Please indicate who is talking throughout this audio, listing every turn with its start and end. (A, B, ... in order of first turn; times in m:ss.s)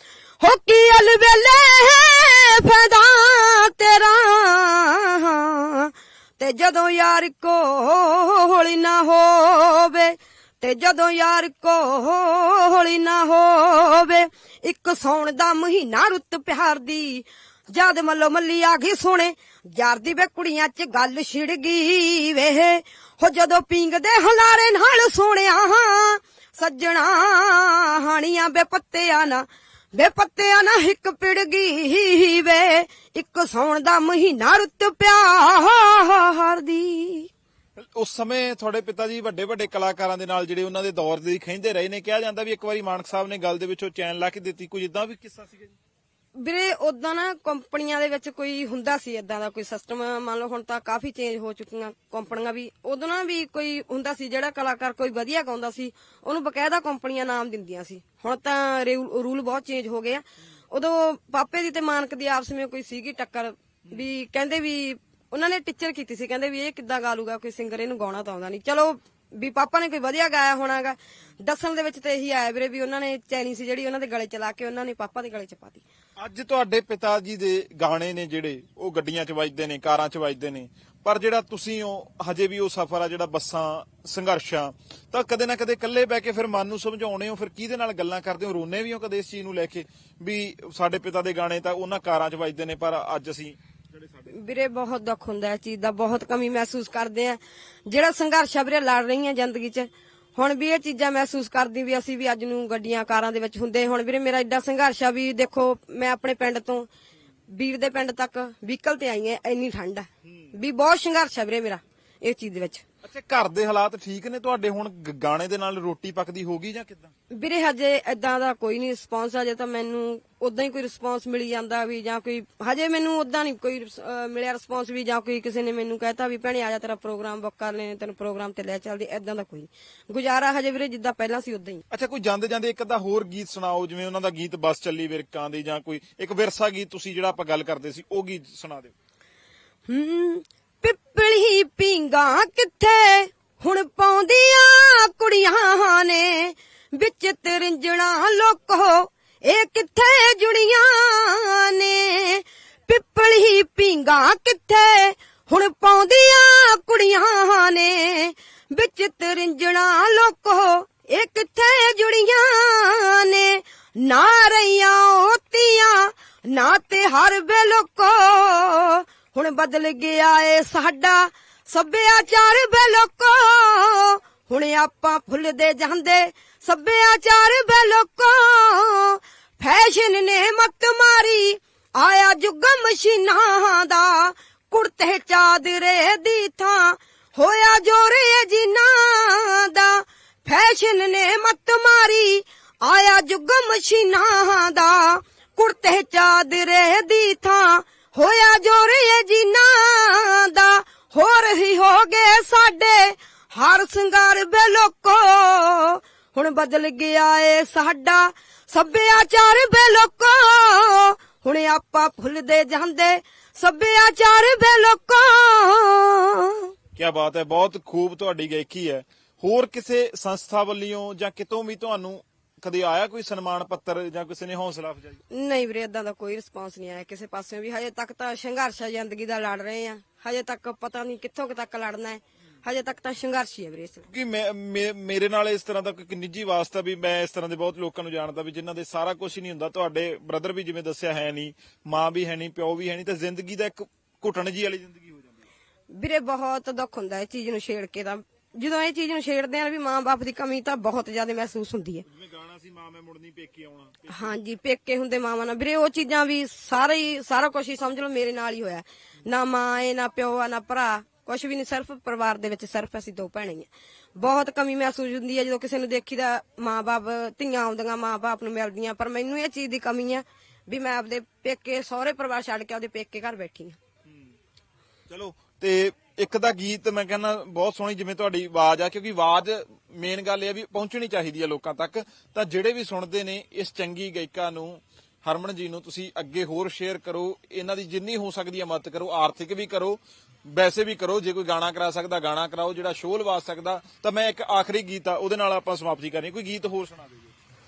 0:00.4-0:37.3 A
0:37.8-0:45.7 B
0:46.4-1:15.8 A
1:16.2-1:34.4 B
1:34.3-1:46.9 A
1:47.5-1:52.8 A
1:50.2-1:50.5 B
1:53.0-1:57.1 B
1:57.3-2:11.8 A
2:11.9-2:18.9 B
2:19.9-3:36.7 A
3:37.0-3:45.2 B
3:45.3-3:54.1 A
3:54.1-4:05.4 B
4:05.9-4:12.0 A
4:12.0-4:14.3 B
4:14.1-4:33.8 A
4:34.1-4:34.3 B
4:35.1-4:57.3 B